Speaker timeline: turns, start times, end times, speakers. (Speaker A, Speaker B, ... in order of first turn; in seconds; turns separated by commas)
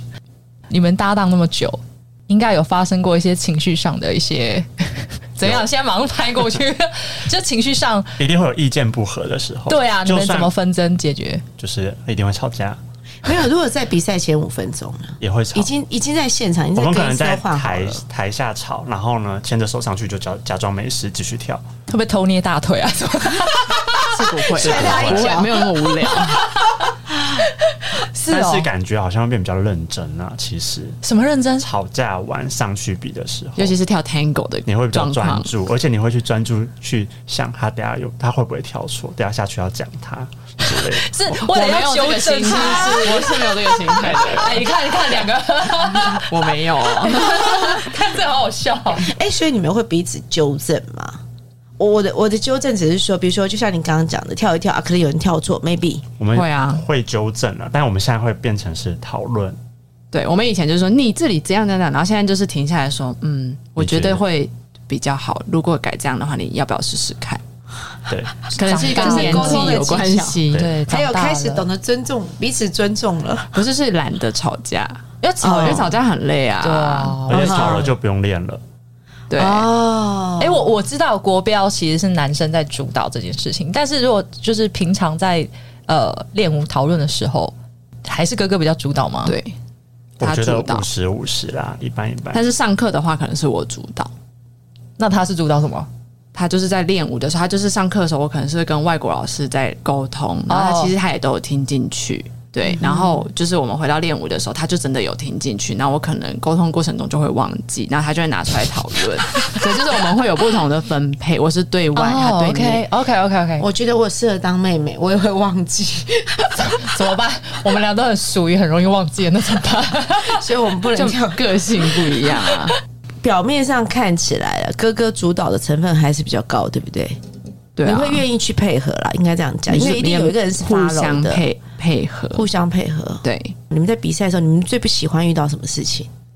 Speaker A: 0.7-8.2, Speaker B: 8.2-10.5, Speaker A: 9.7-11.4, Speaker B: 11.6-12.8, Speaker C: 13.2-18.0, Speaker B: 15.2-15.7, Speaker B: 16.8-21.6, Speaker A: 21.9-24.2, Speaker D: 24.1-26.4, Speaker C: 24.5-26.2, Speaker B: 24.5-25.5, Speaker A: 28.0-28.7, Speaker B: 28.3-31.0, Speaker A: 31.0-31.7, Speaker B: 31.6-33.8, Speaker D: 33.6-35.5, Speaker B: 34.6-41.1, Speaker A: 40.9-49.1, Speaker D: 41.3-44.7, Speaker D: 46.0-47.7, Speaker C: 48.9-51.2, Speaker C: 51.8-56.0, Speaker B: 56.2-59.6, Speaker D: 56.3-56.8, Speaker D: 60.1-67.4, Speaker B: 63.8-64.2, Speaker B: 68.1-68.5, Speaker D: 68.5-70.7, Speaker A: 68.5-71.7, Speaker C: 68.7-73.6, Speaker D: 73.5-77.2, Speaker A: 75.2-75.9, Speaker C: 75.4-75.9, Speaker A: 76.6-77.9, Speaker B: 77.3-78.6, Speaker C: 77.3-77.9, Speaker D: 79.3-79.7, Speaker C: 79.3-80.7, Speaker A: 80.4-89.3, Speaker D: 89.2-89.5, Speaker B: 90.2-92.4, Speaker D: 90.2-90.9, Speaker D: 92.3-94.1, Speaker A: 95.0-95.9, Speaker D: 96.3-112.8, Speaker A: 100.5-100.9, Speaker C: 102.8-103.2, Speaker A: 111.9-113.7, Speaker C: 113.6-116.9, Speaker A: 116.6-120.4, Speaker C: 120.2-121.5, Speaker D: 120.9-122.8, Speaker C: 123.2-127.2, Speaker D: 127.8-128.2, Speaker C: 127.8-131.4, Speaker D: 129.7-132.4, Speaker C: 132.3-136.1, Speaker D: 133.2-133.6